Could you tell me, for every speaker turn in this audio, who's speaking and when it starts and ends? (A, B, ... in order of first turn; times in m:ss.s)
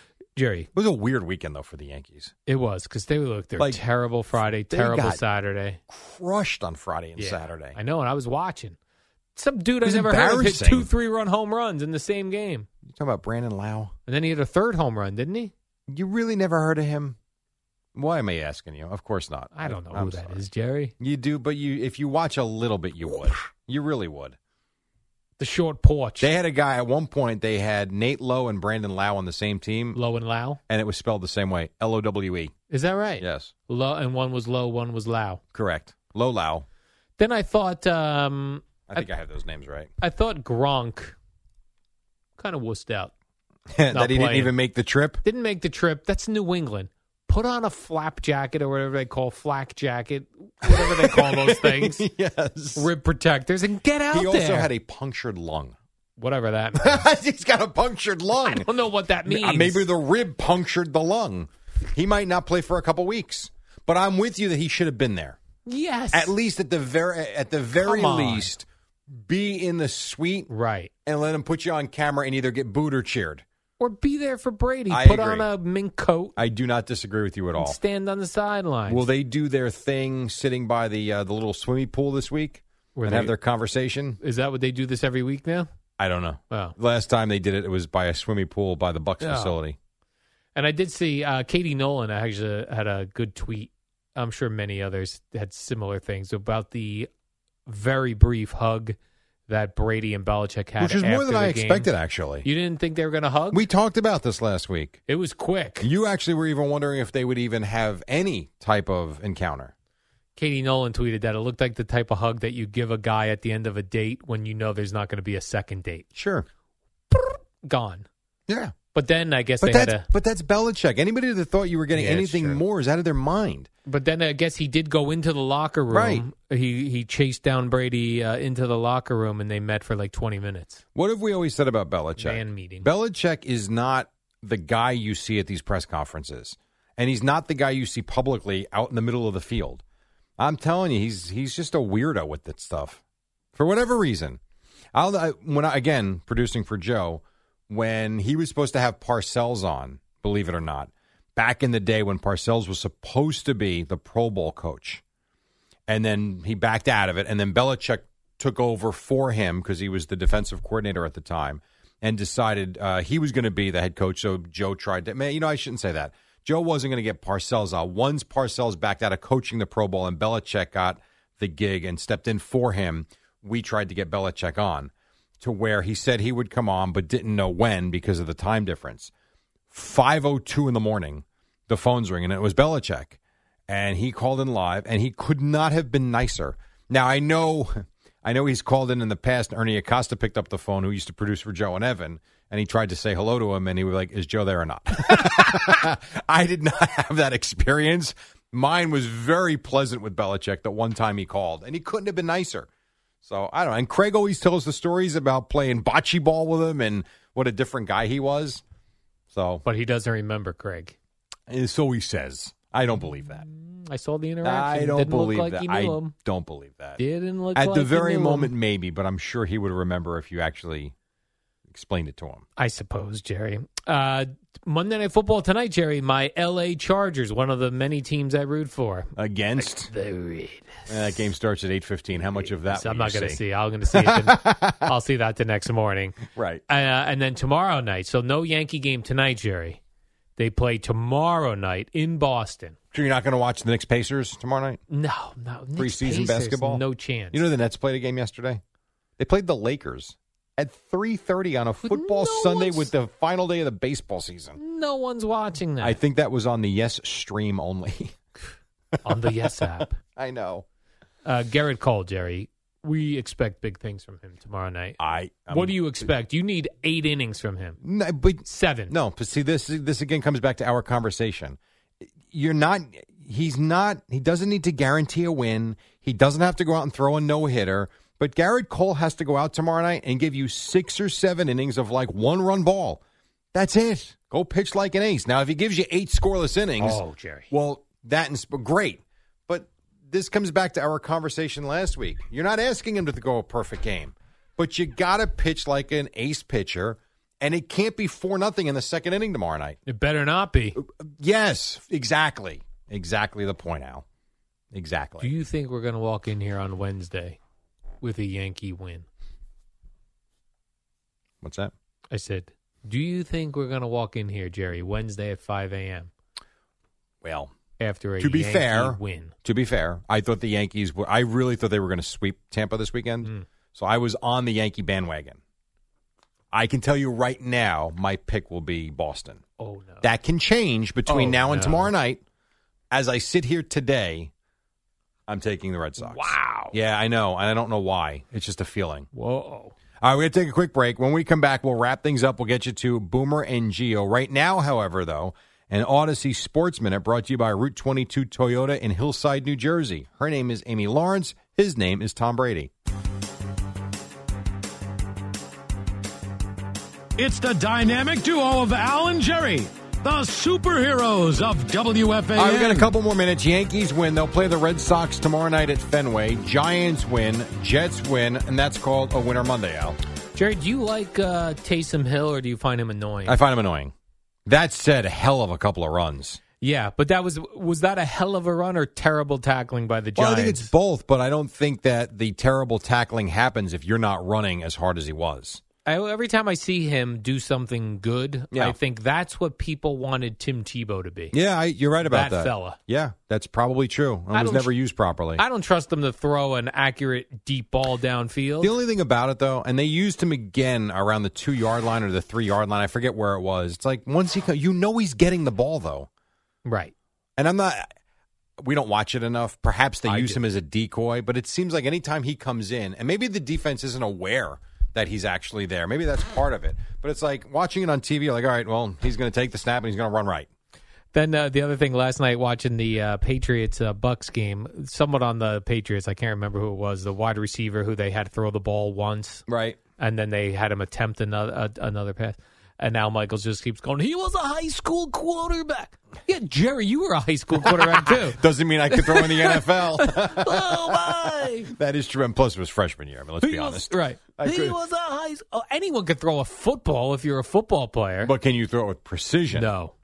0:00.4-0:00.7 A
0:00.7-0:02.3 B
0:02.5-0:05.8 A
0:04.7-0:05.2 B
0:05.9-0:07.8 B
0:07.2-0:08.8 A
0:09.4-0:12.7 A
0:09.8-0:10.9 B
0:12.8-0:13.9 B
0:14.1-0:15.5 A
0:15.9-0:17.2 B
0:17.9-0:20.4 B
0:19.5-0:20.9 A
0:21.0-0:24.4 B
0:25.4-0:26.3 A
0:26.2-0:30.0 B
0:29.9-0:30.6 A
0:30.7-0:32.5 B
0:32.7-0:35.4 A
0:33.2-0:33.5 B
0:35.5-0:36.6 B
0:37.2-0:39.1 A
0:38.9-0:39.9 B
0:40.0-0:41.2 A
0:42.4-0:43.1 A
0:43.7-0:45.2 B
0:43.9-0:44.5 A
0:45.2-0:52.0 A
0:50.6-0:52.9 B
0:52.8-0:54.7 A
0:54.1-0:55.8 B
0:56.2-0:57.0 A
0:56.8-0:58.7 B
0:58.4-0:59.8 A
0:59.2-1:05.4 B
1:05.6-1:06.3 A
1:06.1-1:10.5 B
1:07.8-1:08.5 A
1:10.5-1:10.9 A
1:11.0-1:13.4 B
1:13.8-1:16.4 A
1:14.9-1:15.4 B
1:16.4-1:17.8 B
1:17.5-1:19.0 A
1:18.9-1:24.2 B
1:22.9-1:23.3 A
1:24.2-1:25.7 A
1:26.0-1:29.8 B
1:29.2-1:29.6 A
1:30.5-1:37.1 A
1:37.6-1:41.9 A
1:40.8-1:42.5 B
1:42.4-1:43.6 A
1:43.5-1:45.0 B
1:45.1-1:45.9 A
1:45.8-1:49.7 B
1:50.4-1:56.0 A
1:56.1-1:56.5 B
1:57.1-1:58.1 A
1:58.5-1:58.7 B
1:58.9-2:00.1 A
1:59.6-2:03.7 B
2:01.9-2:02.6 A
2:03.8-2:10.8 A
2:05.9-2:06.2 B
2:10.9-2:19.8 B
2:12.2-2:12.9 A
2:20.4-2:23.0 B
2:23.5-2:24.4 B
2:24.9-2:35.0 B
2:35.9-2:59.1 B
2:59.7-3:22.7 B
3:23.2-3:28.6 B
3:29.3-3:29.6 B
3:29.6-3:31.0 A
3:31.5-3:33.4 B
3:33.3-3:36.1 A
3:34.4-3:37.0 B
3:37.0-3:38.5 A
3:37.5-3:40.9 B
3:41.7-3:42.4 B
3:42.6-3:51.2 A
3:49.2-3:49.9 B
3:50.9-3:54.9 B
3:52.2-3:59.8 A
3:56.3-3:56.6 B
4:00.4-4:02.8 A
4:02.9-4:04.8 B
4:04.9-4:07.4 A
4:05.8-4:08.6 B
4:09.2-4:14.6 B
4:11.8-4:12.9 A
4:14.6-4:16.0 A
4:15.8-4:18.2 B
4:18.9-4:20.6 B
4:19.0-4:20.0 A
4:21.2-4:27.8 A
4:25.0-4:26.1 B
4:27.8-4:31.6 B
4:28.4-4:28.9 A
4:32.2-4:43.0 B
4:43.5-4:59.8 B
4:46.8-4:47.5 A
4:59.8-5:00.8 A
5:00.8-5:04.0 B
5:04.7-5:05.3 B
5:05.2-5:07.4 A
5:08.0-5:09.1 A
5:11.4-5:11.7 B
5:12.1-5:16.1 A
5:17.2-5:17.5 B
5:17.8-5:19.3 A
5:18.2-5:25.4 B
5:26.5-5:29.4 B
5:29.6-5:30.0 A
5:30.0-5:32.2 B
5:31.1-5:31.9 A
5:32.9-5:34.3 B
5:35.3-5:39.1 B
5:36.0-5:36.8 A
5:39.1-5:39.7 A
5:40.0-5:52.7 B
5:57.2-6:02.9 C
6:02.3-6:10.0 B
6:10.3-6:13.4 A
6:13.2-6:13.9 B
6:14.4-6:16.4 B
6:16.6-6:20.7 A
6:20.1-6:25.6 B
6:25.8-6:31.4 A
6:31.3-6:35.4 B
6:32.0-6:32.8 A
6:34.3-6:34.7 A
6:35.4-6:38.7 A
6:38.6-6:46.1 B
6:46.6-6:46.9 A
6:47.4-6:47.9 B
6:48.6-7:00.5 B
6:50.0-6:50.4 A
7:01.1-7:09.4 A
7:09.5-7:09.8 B
7:10.0-7:18.4 A
7:17.6-7:24.8 B
7:18.9-7:21.7 A
7:23.4-7:28.3 A
7:28.2-7:29.7 B
7:29.5-7:29.9 A